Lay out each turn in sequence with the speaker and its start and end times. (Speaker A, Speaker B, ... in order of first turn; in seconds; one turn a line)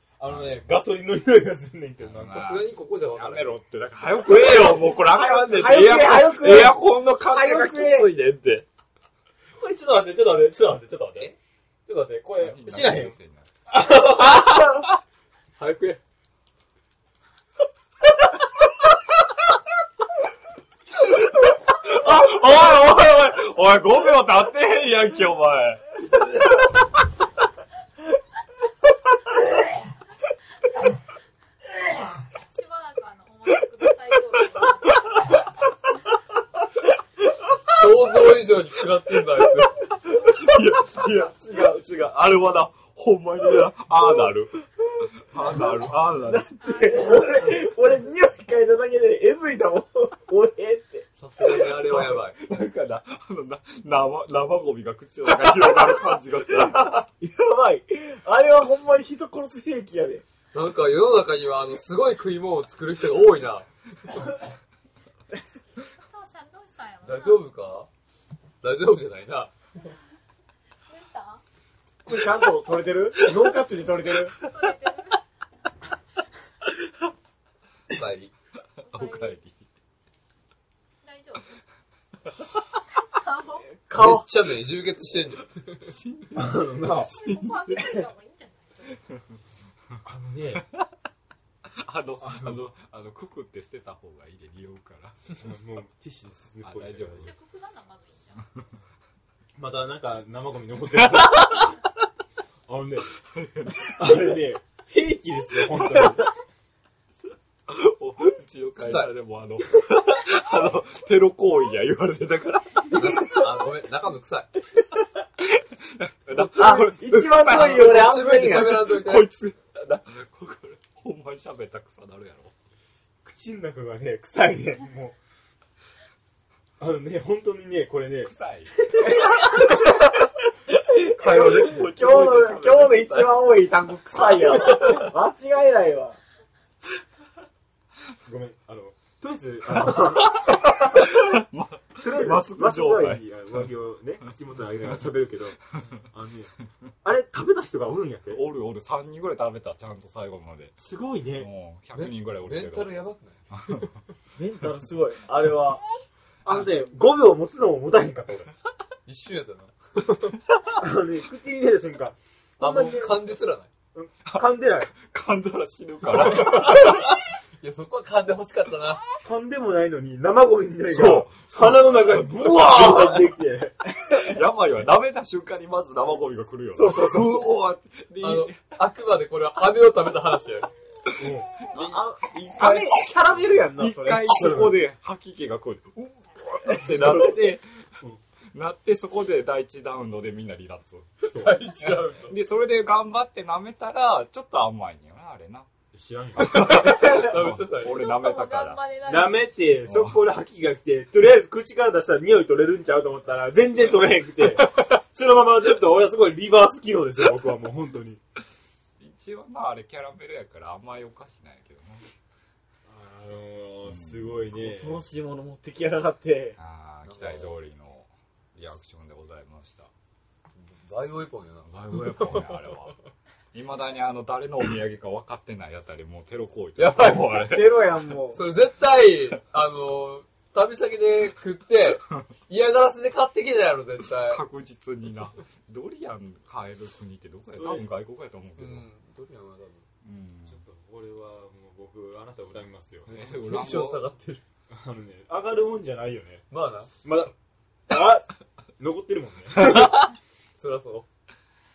Speaker A: 0.2-2.5
Speaker B: 0.3-0.7
Speaker B: 2.0-8.7
Speaker C: 2.3-3.6
Speaker D: 4.7-8.1
Speaker A: 9.6-11.3
Speaker A: 11.9-13.2
Speaker B: 12.4-13.5
Speaker A: 13.7-14.6
Speaker C: 15.6-16.0
Speaker B: 21.0-25.8
Speaker E: 32.3-35.3
Speaker C: 37.7-39.8
Speaker B: 40.1-46.6
Speaker D: 45.5-51.1
Speaker E: 46.6-47.2
Speaker C: 51.2-52.4
Speaker B: 51.4-57.1
Speaker D: 57.2-60.2
Speaker C: 60.5-63.7
Speaker E: 65.8-67.5
Speaker C: 67.0-67.9
Speaker C: 68.6-69.5
Speaker E: 70.9-71.4
Speaker D: 72.1-74.4
Speaker E: 74.4-75.2
Speaker C: 77.9-78.3
Speaker B: 78.8-79.7
Speaker E: 78.8-79.4
Speaker E: 81.0-81.6
Speaker E: 83.0-83.7
Speaker D: 83.7-84.3
Speaker C: 83.9-85.9
Speaker B: 85.8-87.8
Speaker A: 86.3-87.1
Speaker E: 87.0-89.0
Speaker A: 90.0-90.7
Speaker B: 91.7-95.4
Speaker A: 92.2-92.7
Speaker A: 95.4-97.3
Speaker B: 96.6-97.3
Speaker E: 97.2-98.5
Speaker A: 99.6-101.8
Speaker A: 102.7-103.1
Speaker B: 103.3-104.1
Speaker A: 103.8-106.3
Speaker B: 107.2-113.4
Speaker C: 108.8-109.1
Speaker C: 112.9-114.5
Speaker B: 115.4-122.5
Speaker D: 116.4-119.0
Speaker C: 117.4-119.3
Speaker A: 123.2-125.2
Speaker A: 126.8-128.3
Speaker B: 128.2-128.8
Speaker D: 129.1-130.0
Speaker D: 130.7-136.2
Speaker B: 131.2-133.5
Speaker B: 134.3-134.9
Speaker A: 138.2-140.6
Speaker B: 139.8-143.2
Speaker A: 142.0-146.5
Speaker A: 147.0-148.4
Speaker B: 148.3-150.7
Speaker A: 150.8-151.5
Speaker B: 151.4-153.0
Speaker C: 151.9-153.4
Speaker B: 153.5-153.9
Speaker D: 154.4-155.8
Speaker A: 156.4-158.5
Speaker C: 159.1-160.1
Speaker A: 160.6-163.3
Speaker C: 162.6-163.7
Speaker A: 163.9-164.9
Speaker B: 164.3-167.1
Speaker C: 166.5-167.1
Speaker C: 167.6-169.1
Speaker A: 169.2-173.8
Speaker B: 170.9-173.4
Speaker B: 174.0-178.7
Speaker D: 176.8-177.2
Speaker C: 178.2-180.7
Speaker A: 181.2-181.5
Speaker B: 181.7-187.8
Speaker D: 181.7-184.7
Speaker B: 188.5-191.2
Speaker C: 191.2-192.4
Speaker A: 191.3-191.6
Speaker B: 191.9-195.7
Speaker A: 195.9-196.9
Speaker B: 196.4-198.8
Speaker C: 196.5-198.0
Speaker E: 197.8-199.5
Speaker A: 199.1-208.2
Speaker B: 199.8-200.2
Speaker B: 209.0-212.1
Speaker A: 212.9-215.1
Speaker B: 213.9-214.4
Speaker D: 214.5-216.6
Speaker B: 216.6-219.9
Speaker C: 217.1-217.6
Speaker C: 220.6-221.7
Speaker B: 221.7-223.0
Speaker B: 223.5-227.8
Speaker C: 226.8-234.4
Speaker D: 227.4-228.4
Speaker B: 234.2-238.8
Speaker A: 237.5-237.9
Speaker C: 238.6-239.9
Speaker B: 240.0-240.6
Speaker A: 240.4-243.2
Speaker B: 243.1-244.1
Speaker C: 243.1-244.4
Speaker A: 244.7-246.4
Speaker C: 246.5-246.9
Speaker A: 247.0-247.3
Speaker A: 247.9-250.1
Speaker C: 249.6-249.9
Speaker C: 250.6-251.1